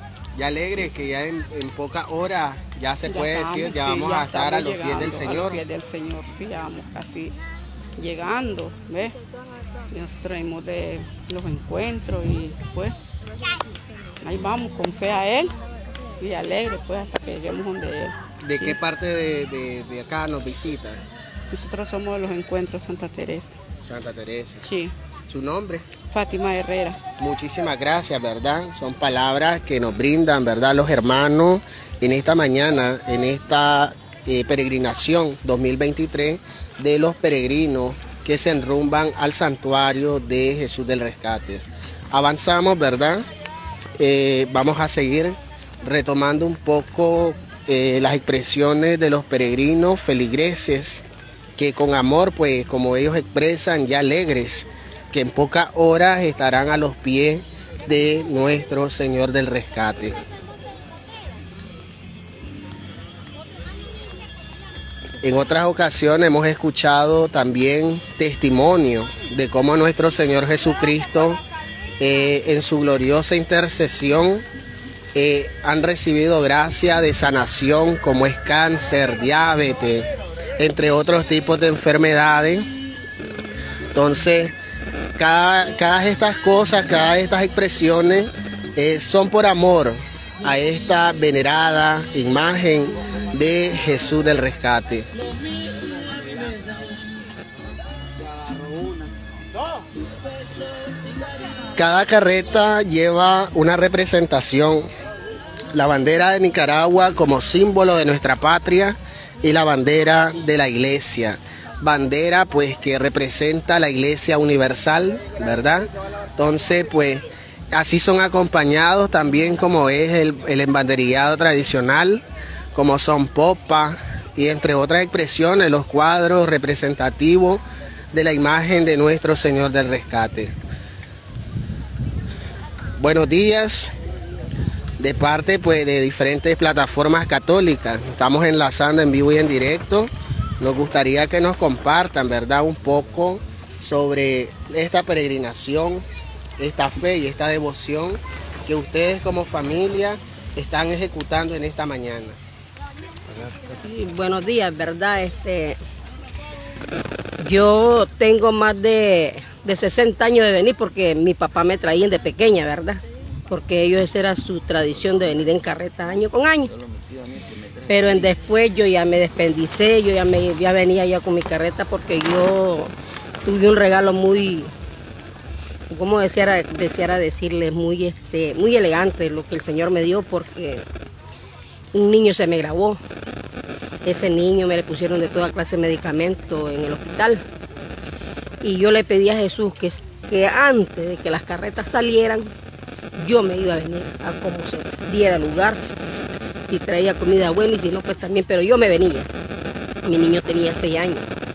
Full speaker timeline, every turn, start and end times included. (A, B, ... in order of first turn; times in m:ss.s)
0:00.4-0:05.6 A
0:03.1-0:07.4 B
0:08.0-0:09.1 B
0:09.9-0:13.0 B
0:14.2-0:15.5 B
0:16.2-0:18.8 B
0:18.4-0:21.0 A
0:21.5-0:23.6 B
0:23.8-0:24.7 A
0:24.6-0:24.9 B
0:25.3-0:25.9 A
0:26.1-0:27.0 B
0:27.2-0:43.3 A
0:44.0-0:51.0 A
0:51.6-1:00.2 A
1:05.2-1:11.4 A
1:12.0-1:14.4 A
1:15.2-1:20.1 A
1:20.6-1:22.7 A
1:23.9-1:24.6 A
1:25.2-1:35.1 A
1:41.8-1:44.9 A
1:45.7-2:02.2 A
2:02.7-2:10.5 A
2:13.0-2:13.9 A
2:15.0-2:26.0 A
2:26.6-2:32.4 A
2:33.5-2:35.8 C
2:37.4-2:46.8 C
2:47.9-2:52.9 C
2:53.4-2:54.7 C
2:55.9-3:00.8 C
3:01.9-3:03.0 C
3:04.0-3:07.4 C
3:08.6-3:12.5 C
3:13.2-3:15.9 C
3:16.7-3:19.3 C
3:20.0-3:21.3 C